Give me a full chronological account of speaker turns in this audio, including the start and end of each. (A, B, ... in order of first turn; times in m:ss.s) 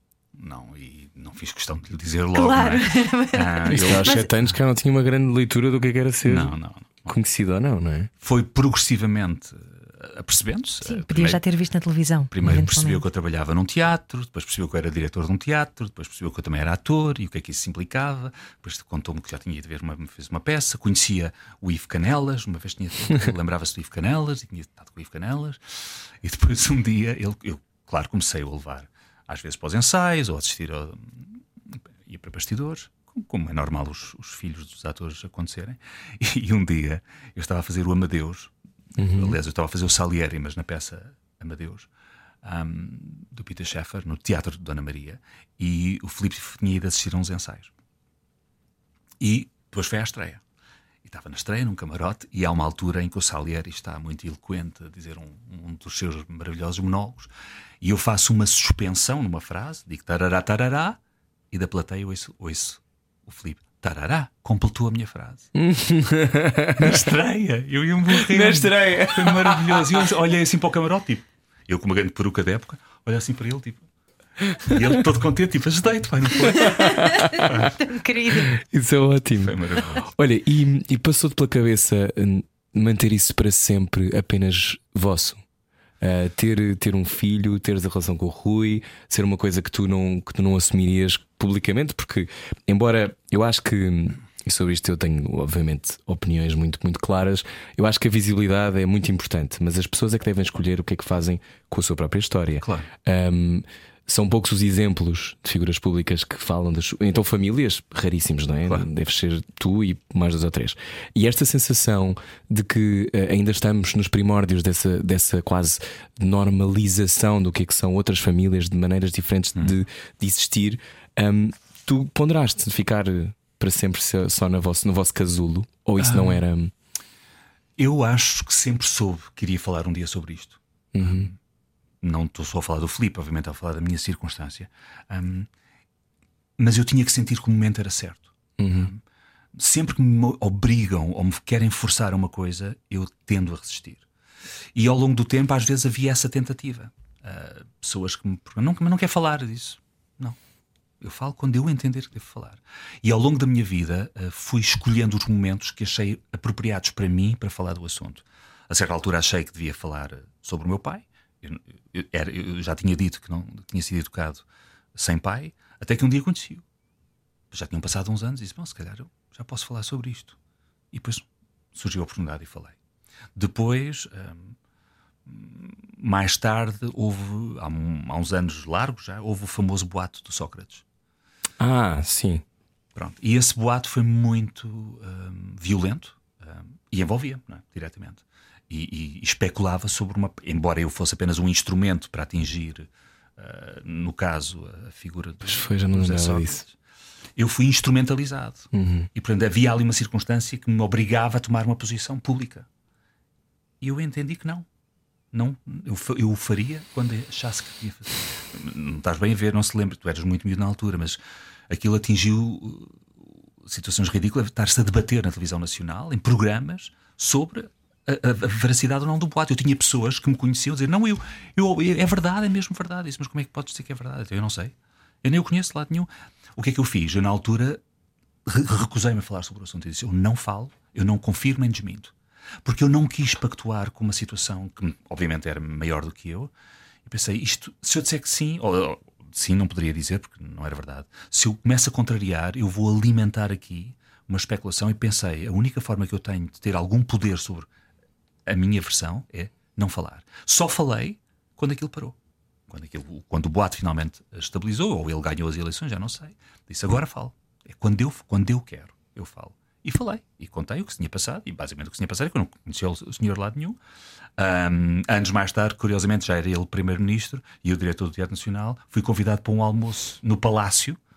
0:00.3-0:04.5 A
0:02.3-0:04.3 B
0:03.6-0:06.5 C
0:06.2-0:07.1 A
0:07.0-0:08.1 C
0:08.2-0:11.4 A
0:10.8-0:13.0 B
0:12.3-0:31.4 A
0:32.0-0:41.9 A
0:39.0-0:39.4 C
0:42.4-0:47.7 A
0:49.2-0:50.4 A
0:51.0-0:57.3 A
0:57.8-1:01.0 A
1:01.5-1:05.5 A
1:05.6-1:07.0 C
1:06.8-1:13.8 A
1:08.1-1:10.0 C
1:14.6-1:17.7 A
1:16.5-1:17.7 C
1:17.3-1:18.5 B
1:18.4-1:25.4 C
1:19.4-1:20.0 A
1:26.0-2:06.7 C
1:42.6-1:42.9 A
2:06.0-2:06.4 A
2:07.8-2:11.4 A
2:10.9-2:11.3 C
2:12.0-2:15.5 A
2:16.6-2:19.0 A
2:18.6-2:18.9 C
2:19.5-2:24.0 A
2:24.7-2:30.4 A
2:31.0-2:46.6 A
2:47.5-2:50.4 A
2:50.9-2:52.8 A
2:53.3-2:54.6 A
2:55.2-3:00.8 A
3:01.6-3:02.4 C
3:02.9-3:16.7 A
3:15.4-3:16.6 C
3:17.4-3:22.7 A
3:18.7-3:19.1 C
3:23.8-3:24.7 A
3:25.3-3:33.0 A
3:33.6-3:47.8 A
3:48.4-3:52.1 A
3:52.6-3:56.5 A
3:57.0-4:07.7 A
4:08.4-4:12.2 A
4:12.7-4:23.8 A
4:24.4-4:31.0 A